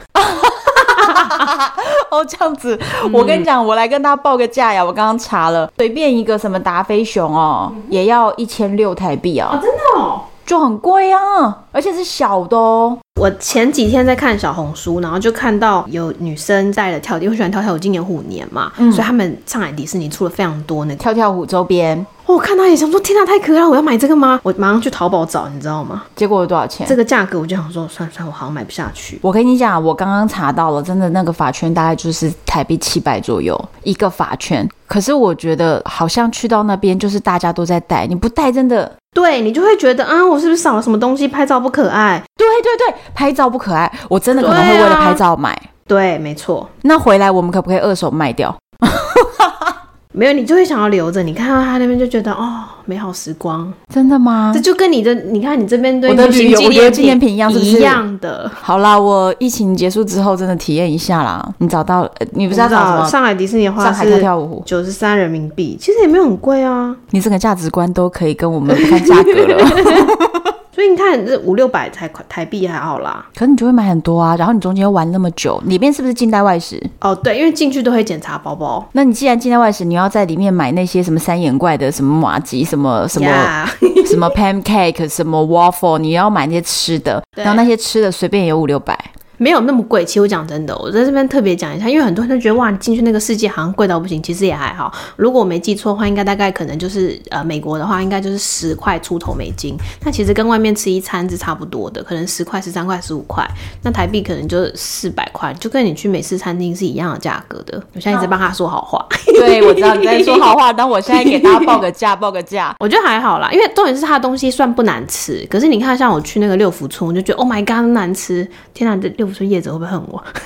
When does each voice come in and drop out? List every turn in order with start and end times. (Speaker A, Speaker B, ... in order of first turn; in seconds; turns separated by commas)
Speaker A: 0.2-9.6, Speaker B: 0.8-1.5, Speaker B: 3.0-3.5, Speaker B: 9.5-10.3, Speaker A: 10.4-13.0, Speaker B: 13.2-21.1, Speaker A: 18.8-19.1, Speaker A: 21.0-22.1, Speaker B: 22.3-26.1, Speaker A: 26.2-27.0, Speaker B: 26.9-29.2, Speaker A: 29.2-38.9, Speaker B: 39.1-42.2, Speaker A: 42.4-45.7, Speaker B: 44.4-45.2, Speaker B: 45.9-46.7, Speaker A: 46.8-49.8, Speaker B: 50.1-53.8, Speaker A: 53.9-54.6, Speaker B: 54.5-58.6, Speaker A: 56.1-58.0, Speaker A: 58.6-63.1, Speaker B: 62.5-67.0, Speaker A: 63.8-64.7, Speaker A: 67.1-70.5, Speaker B: 68.7-70.1, Speaker B: 70.7-73.3, Speaker A: 73.4-76.9, Speaker B: 77.0-78.9, Speaker A: 78.9-83.5, Speaker B: 83.1-84.3, Speaker A: 84.0-89.1, Speaker B: 87.4-87.7, Speaker B: 89.4-110.5, Speaker A: 109.3-112.8, Speaker B: 111.1-111.8, Speaker B: 112.8-120.3